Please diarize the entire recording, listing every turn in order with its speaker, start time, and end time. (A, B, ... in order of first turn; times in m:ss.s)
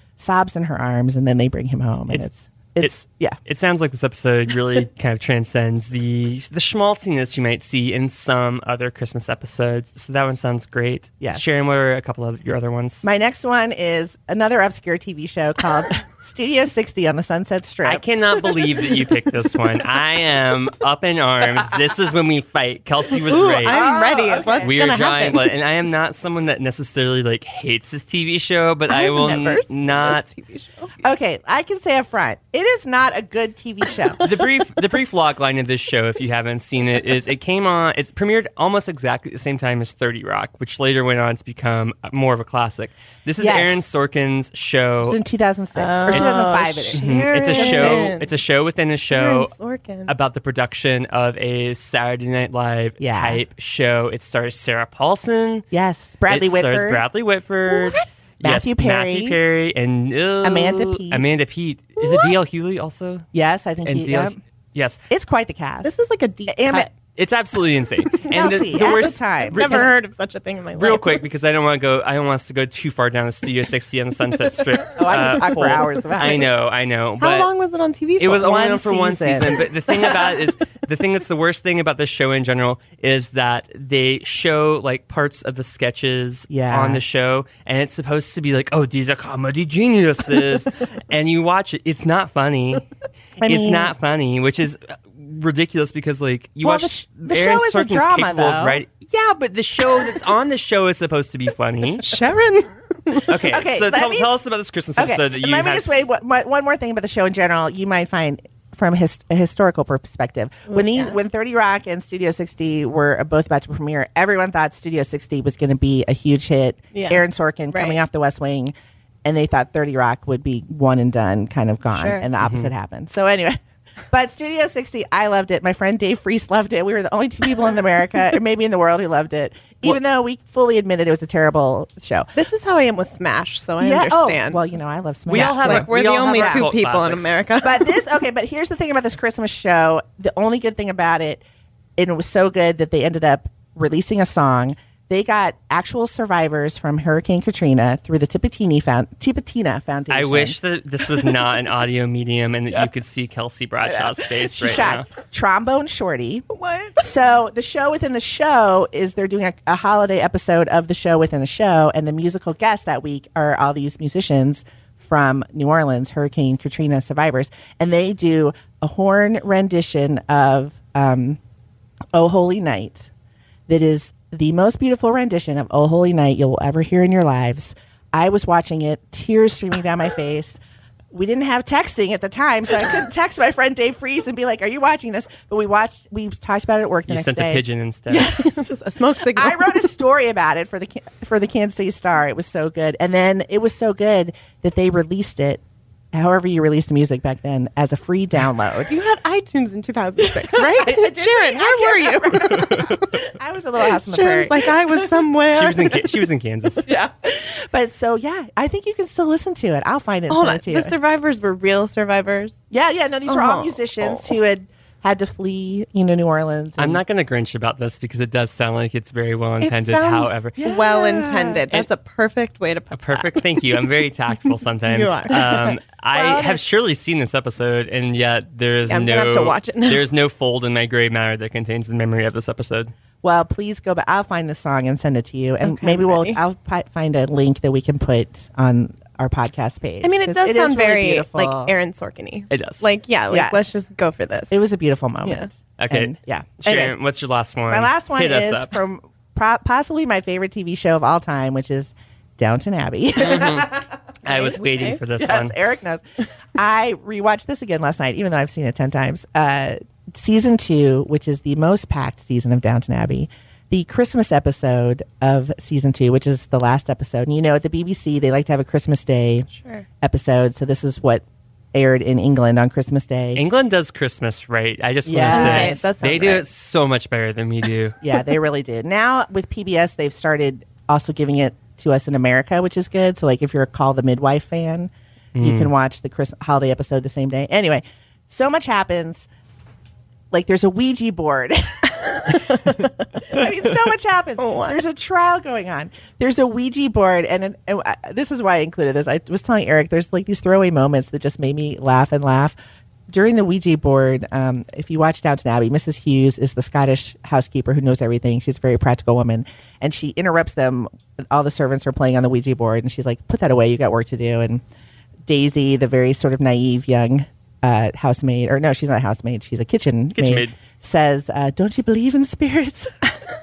0:00.2-0:03.4 A
0:02.8-0:13.0 B
0:11.2-0:11.5 A
0:13.0-0:18.0 A
0:17.8-0:23.8 B
0:23.2-0:25.4 C
0:23.6-0:24.7 A
0:24.6-0:30.2 B
0:28.9-0:30.9 C
0:31.0-0:34.2 A
0:34.2-0:45.2 B
0:43.4-0:43.8 A
0:45.0-0:48.1 A
0:45.8-0:48.3 C
0:46.1-0:49.5 B
0:49.1-0:50.1 C
0:50.0-0:55.6 B
0:53.0-0:53.4 A
0:55.7-0:57.0 A
0:56.3-1:03.2 B
0:57.7-0:58.0 C
0:58.4-0:59.4 A
1:00.4-1:01.2 A
1:03.3-1:04.4 A
1:03.8-1:05.0 B
1:05.1-1:05.9 A
1:05.8-1:06.9 C
1:06.5-1:06.9 A
1:07.1-1:09.9 B
1:08.3-1:09.9 A
1:08.8-1:11.2 C
1:10.7-1:17.5 B
1:15.0-1:16.5 A
1:17.2-1:18.6 C
1:18.2-1:32.8 B
1:18.4-1:19.6 A
1:26.5-1:27.0 A
1:33.4-1:33.9 A
1:33.4-1:42.1 B
1:36.6-1:38.8 A
1:42.0-1:43.3 C
1:43.2-1:46.0 B
1:43.4-1:44.4 A
1:45.0-1:58.7 A
1:50.7-1:51.2 C
1:56.9-1:58.0 C
1:59.2-2:03.6 A
2:01.9-2:02.2 C
2:02.4-2:02.7 B
2:04.1-2:12.3 A
2:12.4-2:14.6 C
2:13.8-2:16.7 A
2:15.3-2:17.3 B
2:15.3-2:18.0 C
2:17.6-2:21.4 A
2:22.0-2:30.6 A
2:30.1-2:35.1 B
2:33.9-2:51.4 A
2:36.6-2:37.0 C
2:52.1-2:53.1 A
2:53.7-3:00.6 A
3:01.1-3:08.6 A
3:07.1-3:08.4 B
3:08.2-3:09.8 C
3:09.3-3:15.6 A
3:16.1-3:18.9 A
3:18.9-3:23.2 C
3:20.4-3:25.1 A
3:23.9-3:26.2 C
3:25.5-3:26.8 B
3:26.8-3:30.9 A
3:30.3-3:32.6 C
3:32.7-3:37.0 A
3:33.3-3:34.3 C
3:36.8-3:40.6 B
3:39.6-3:43.4 C
3:40.6-3:41.6 A
3:42.9-3:52.9 B
3:44.8-3:45.6 C
3:45.4-3:46.6 A
3:48.9-3:50.0 C
3:53.2-4:01.7 A
3:55.6-3:56.4 C
4:00.0-4:04.6 C
4:02.5-4:02.8 B
4:03.3-4:03.7 A
4:04.5-4:06.9 A
4:05.2-4:05.5 C
4:05.8-4:08.7 B
4:07.7-4:13.8 A
4:13.2-4:15.6 B
4:14.3-4:15.0 C
4:15.2-4:16.0 A
4:16.5-4:29.5 A
4:29.5-4:29.8 C
4:30.0-4:33.4 A
4:33.3-4:38.0 B
4:35.0-4:35.9 A
4:35.2-4:36.4 C
4:38.0-4:49.3 A
4:45.3-4:45.7 B
4:50.3-5:02.6 A
4:52.3-4:52.9 C
4:54.4-4:54.8 C
5:03.1-5:14.6 A
5:15.2-5:23.2 A
5:20.1-5:20.5 B